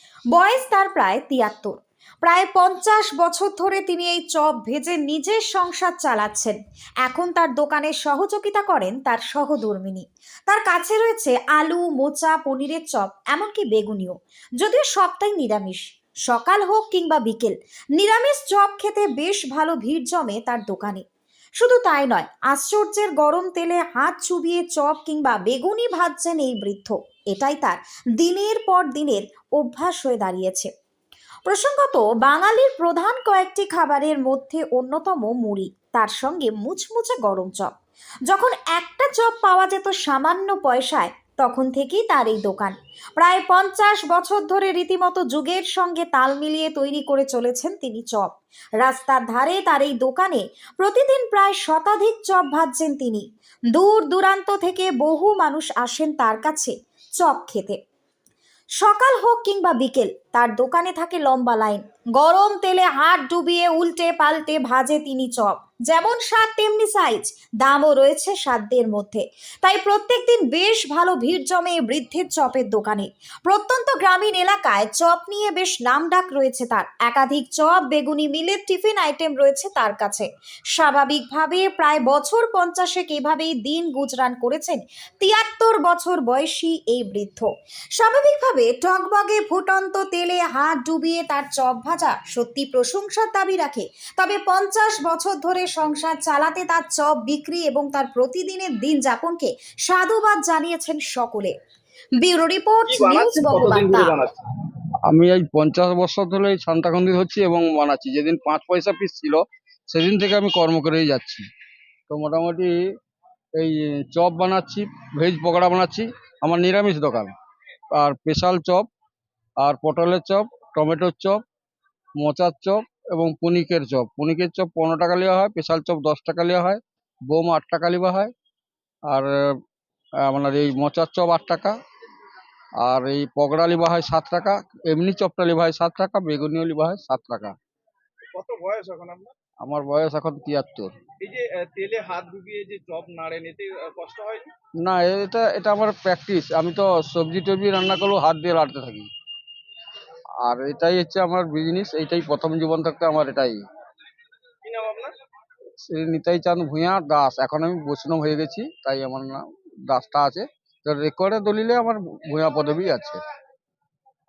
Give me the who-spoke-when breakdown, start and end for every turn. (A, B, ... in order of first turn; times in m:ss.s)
0:00.3-0:21.0 A
0:21.6-0:30.7 A
0:31.4-0:37.7 A
0:38.3-0:57.8 A
0:58.8-1:41.5 A
1:42.2-1:44.1 A
1:42.9-1:44.4 B
1:45.1-1:51.4 C
1:52.1-1:52.8 C
1:53.6-1:57.3 C
1:57.9-1:58.9 C
1:59.6-2:01.4 C
2:02.2-2:08.3 C
2:09.1-2:09.5 C
2:10.2-2:11.8 C
2:12.8-2:17.5 C
2:18.3-2:19.3 B
2:19.6-2:20.9 C
2:21.2-2:24.5 B
2:24.8-2:29.1 C
2:30.4-2:33.6 C
2:34.6-2:35.1 B
2:35.8-2:43.2 C